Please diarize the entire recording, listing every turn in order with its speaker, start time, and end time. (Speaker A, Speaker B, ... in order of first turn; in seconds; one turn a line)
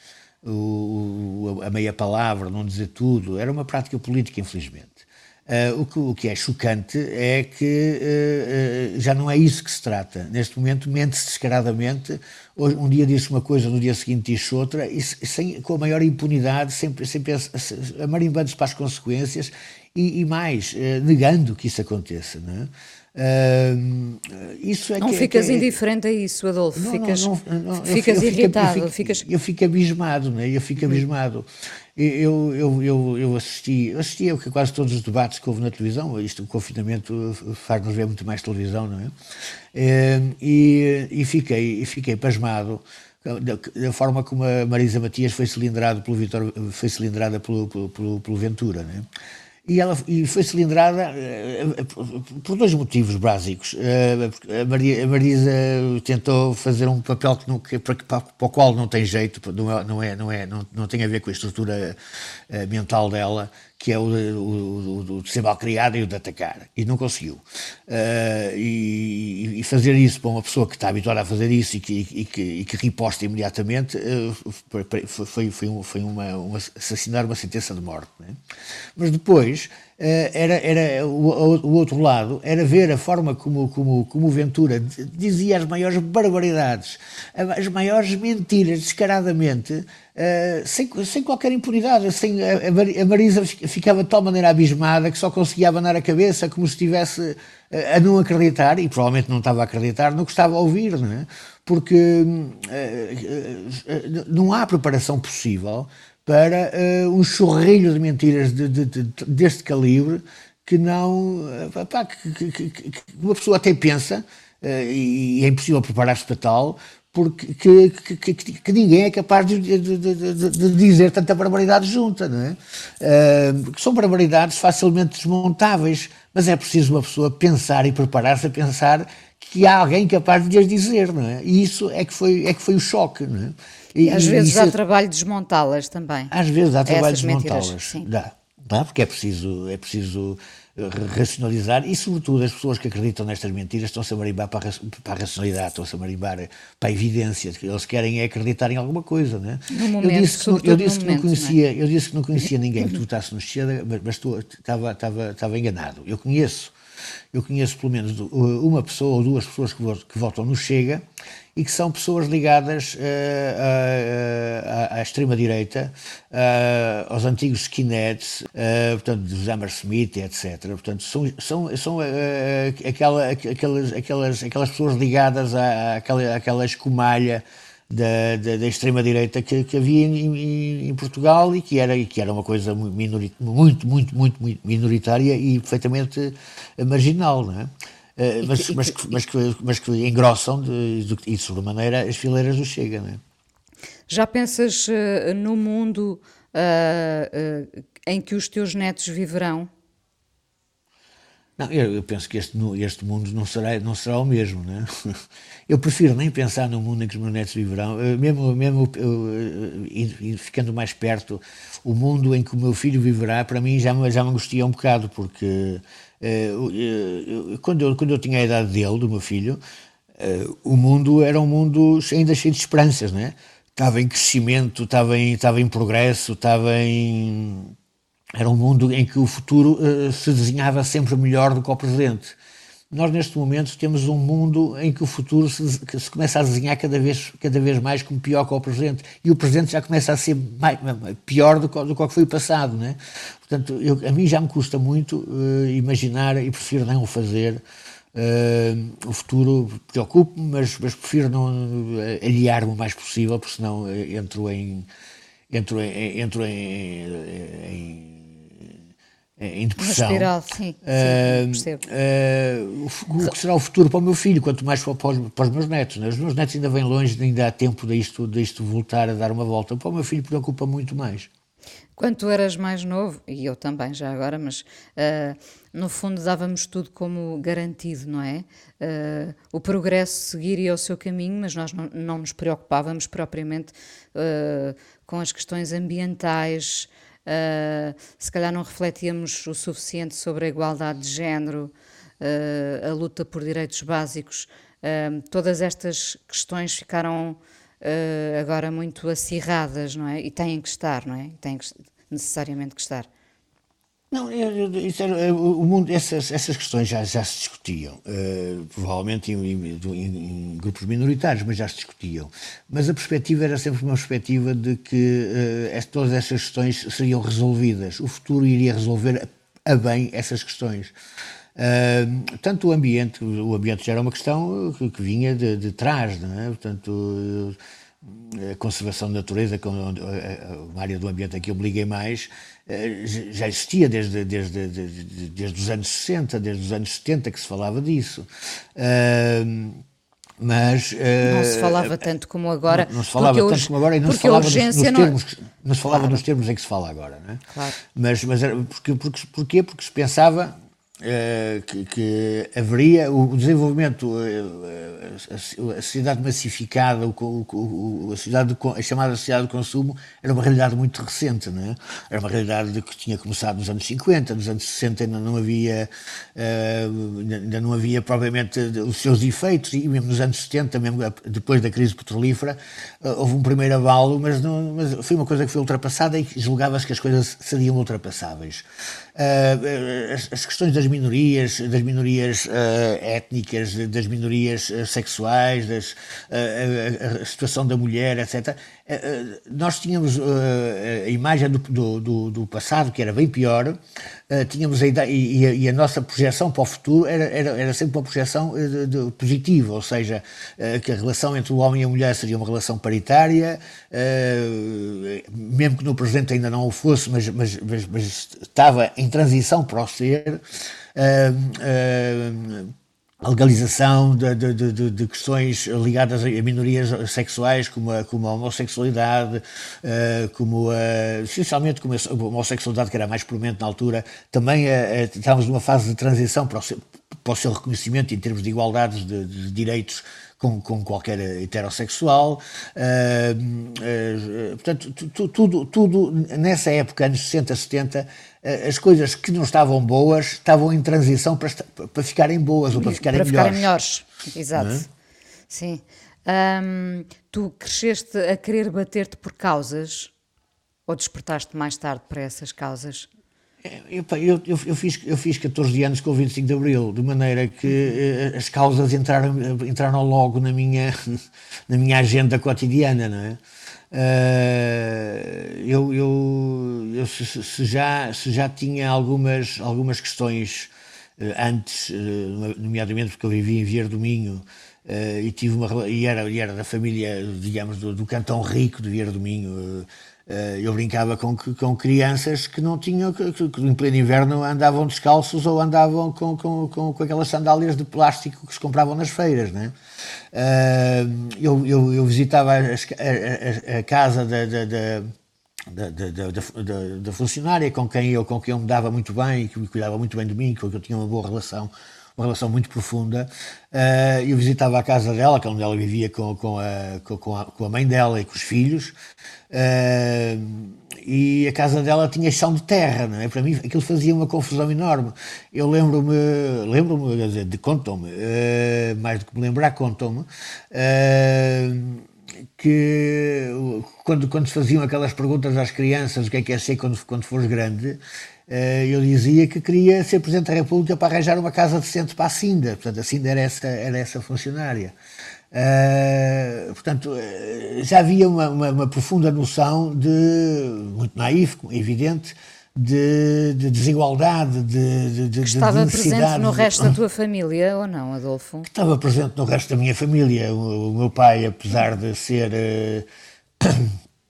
Speaker A: 0.4-25.8
Speaker B: 25.0-29.2
Speaker A: 26.7-39.1
Speaker A: 39.7-49.0
Speaker A: 49.6-62.0
Speaker A: 62.5-78.4
Speaker A: 79.0-134.8
Speaker B: 134.0-136.3
Speaker A: 136.3-156.7
Speaker B: 136.8-138.1
Speaker B: 149.7-151.6
Speaker A: 157.3-193.2
Speaker B: 188.4-189.1
Speaker B: 194.1-199.7
Speaker A: 201.6-219.6
Speaker A: 220.2-227.7
Speaker A: 228.3-232.4
Speaker A: 232.9-247.6
Speaker A: 248.1-254.9
Speaker A: 255.5-258.8
Speaker A: 259.4-260.3
Speaker B: 259.8-261.8
Speaker A: 260.8-271.3
Speaker B: 272.0-303.1
Speaker A: 304.1-320.9
Speaker A: 321.6-339.8
Speaker A: 340.4-342.0
Speaker B: 341.2-345.2
Speaker A: 342.6-410.4
Speaker B: 345.9-346.2
Speaker B: 347.5-347.8
Speaker A: 410.9-443.7
Speaker B: 442.7-444.9
Speaker A: 444.5-444.9
Speaker B: 445.5-450.1
Speaker B: 450.9-453.1
Speaker A: 453.6-463.4
Speaker A: 463.9-489.7
Speaker A: 490.3-495.1
Speaker A: 495.7-508.9
Speaker A: 509.5-522.0
Speaker A: 522.5-535.0
Speaker A: 535.5-547.0
Speaker B: 545.4-548.7
Speaker A: 548.6-553.0
Speaker A: 553.6-553.9